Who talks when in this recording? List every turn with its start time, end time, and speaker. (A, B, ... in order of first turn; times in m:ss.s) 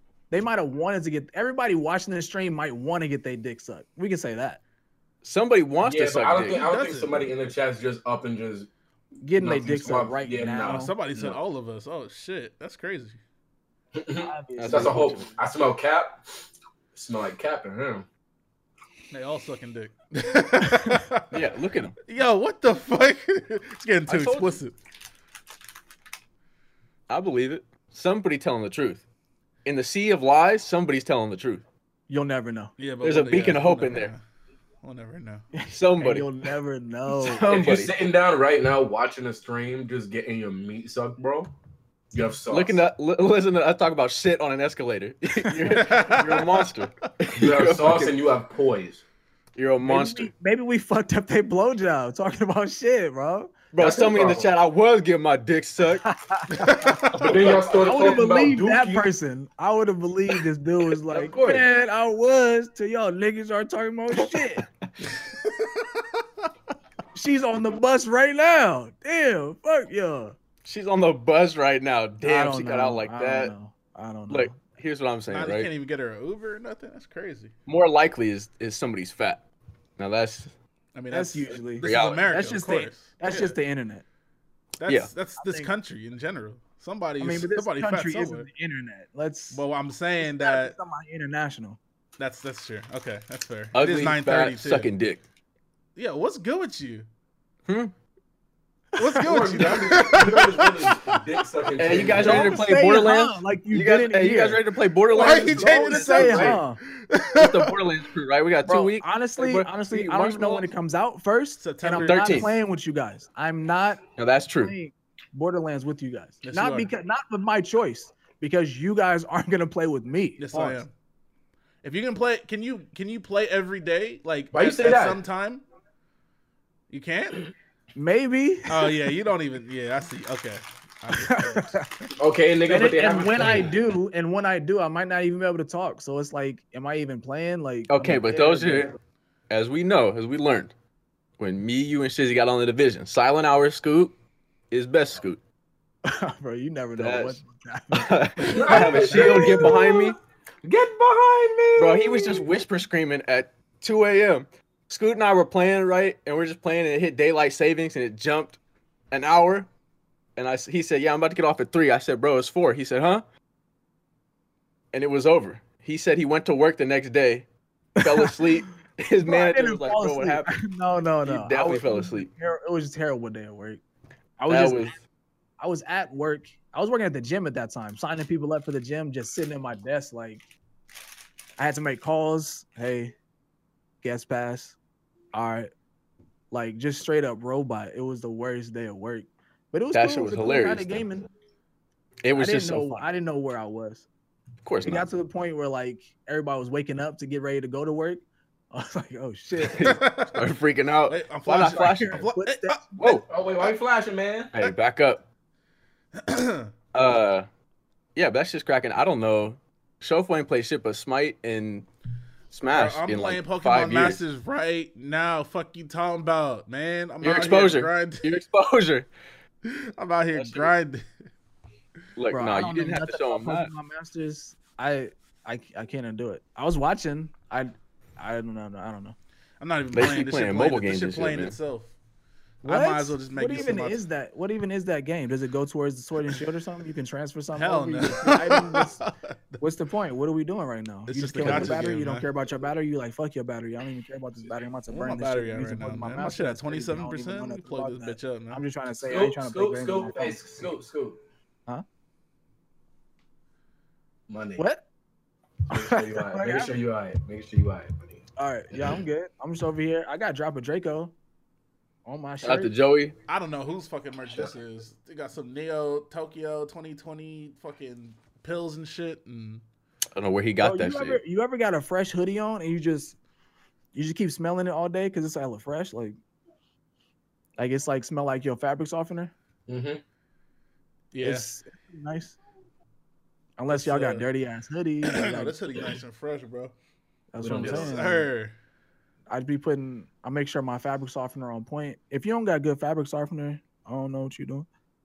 0:00.3-0:04.6 A
0:05.2-0:06.6 B
0:05.8-0:08.7 C
0:06.5-0:07.3 D
0:09.2-0:10.9 A
0:09.4-0:11.4 C
0:10.6-0:13.2 D
0:14.0-0:16.2 C
0:14.2-0:15.4 A
0:14.6-0:15.3 B
0:17.0-0:18.1 C
0:19.1-0:21.3 D
0:21.3-0:22.0 B
0:22.1-0:24.7 D
0:24.1-0:24.6 B
0:27.1-0:29.0 B
0:29.6-0:31.6 B
0:32.1-0:32.7 A
0:32.8-0:34.2 D
0:33.0-0:34.1 B
0:34.8-0:35.4 D
0:35.5-0:37.5 A
0:35.7-0:36.3 B
0:37.1-0:38.1 B
0:37.4-0:41.5 C
0:42.1-0:42.8 C
0:42.5-0:48.2 B
0:45.7-0:46.7 D
0:47.3-0:49.0 C
0:49.6-0:50.3 B
0:49.8-0:53.5 A
0:53.7-0:56.0 B
0:53.8-0:54.5 C
0:56.0-0:57.1 A
0:56.5-0:57.6 D
0:57.1-0:59.1 C
0:57.8-1:04.7 A
1:01.1-1:01.7 B
1:04.2-1:04.7 B
1:05.4-1:06.0 D
1:07.2-1:10.4 A
1:10.6-1:13.5 B
1:12.2-1:14.6 A
1:14.3-1:15.7 B
1:15.3-1:17.5 D
1:17.7-1:19.4 B
1:20.0-1:20.5 B
1:20.9-1:23.6 D
1:21.1-1:24.0 A
1:21.8-1:22.3 B
1:24.8-1:28.5 D
1:25.4-1:25.7 A
1:27.2-1:29.6 A
1:29.5-1:30.8 D
1:30.2-1:31.8 A
1:32.2-1:34.9 D
1:33.7-1:35.2 B
1:36.0-1:37.1 D
1:37.7-1:37.9 B
1:39.0-1:41.2 D
1:39.0-1:39.6 A
1:39.2-1:42.6 C
1:41.8-1:46.6 B
1:42.2-1:46.8 A
1:45.2-1:47.8 D
1:47.4-1:50.7 B
1:48.6-1:54.0 A
1:51.6-1:52.6 D
1:52.0-1:52.6 B
1:54.2-1:54.7 B
1:54.6-2:00.8 A
1:56.4-1:56.9 D
2:00.4-2:00.9 D
2:01.8-2:05.6 D
2:04.5-2:05.2 C
2:06.9-2:07.5 D
2:08.0-2:09.0 A
2:08.7-2:11.8 D
2:11.1-2:12.1 A
2:12.2-2:13.7 C
2:12.7-2:19.0 A
2:17.9-2:18.9 B
2:19.5-2:20.7 B
2:21.4-2:24.1 B
2:24.7-2:25.4 B
2:26.0-2:29.9 A
2:27.0-2:27.4 B
2:27.9-2:30.2 B
2:28.5-2:32.5 C
2:31.8-2:38.6 B
2:39.1-2:39.7 B
2:40.4-2:43.2 B
2:44.9-2:47.5 B
2:48.0-2:48.5 A
2:48.0-2:50.5 B
2:49.2-2:53.8 A
2:51.2-2:52.3 B
2:54.4-2:55.0 A
2:54.5-2:55.0 B
2:55.6-3:00.4 A
3:01.6-3:03.1 A
3:04.0-3:04.8 A
3:05.3-3:05.7 A
3:06.5-3:11.3 A
3:09.9-3:11.1 B
3:12.2-3:13.1 B
3:12.3-3:14.0 A
3:14.6-3:15.1 B
3:14.8-3:20.0 A
3:19.7-3:20.5 D
3:19.7-3:22.2 B
3:21.1-3:22.8 D
3:21.7-3:22.8 A
3:23.0-3:23.3 B
3:23.0-3:24.5 C
3:24.5-3:25.2 B
3:26.2-3:26.7 D
3:26.9-3:27.5 B
3:28.2-3:31.9 B
3:32.5-3:34.2 B
3:32.7-3:38.2 D
3:37.2-3:39.1 B
3:39.6-3:41.0 D
3:40.3-3:40.7 B
3:42.2-3:43.7 B
3:42.3-3:49.2 A
3:49.6-3:51.9 D
3:49.9-3:51.6 B
3:52.6-3:59.0 A
3:52.6-3:54.0 D
3:57.6-3:59.6 D
3:59.6-4:10.7 A
4:01.1-4:02.3 D
4:01.4-4:01.8 B
4:04.9-4:08.6 D
4:09.1-4:11.2 C
4:14.3-4:14.6 C
4:14.6-4:14.8 A
4:15.7-4:19.0 C
4:15.7-4:16.8 A
4:18.4-4:21.1 A
4:22.0-4:22.7 A
4:22.4-4:23.2 B
4:23.3-4:29.6 D
4:30.2-4:31.2 B
4:30.6-4:33.2 A
4:33.9-4:36.2 A
4:37.6-4:39.3 A
4:39.7-4:40.0 C
4:41.1-4:41.5 D
4:41.2-4:42.4 A
4:43.6-4:45.9 A
4:43.7-4:44.2 D
4:45.0-4:46.7 D
4:47.3-4:48.3 A
4:47.4-4:47.9 C
4:47.6-4:48.5 D
4:49.3-4:54.7 A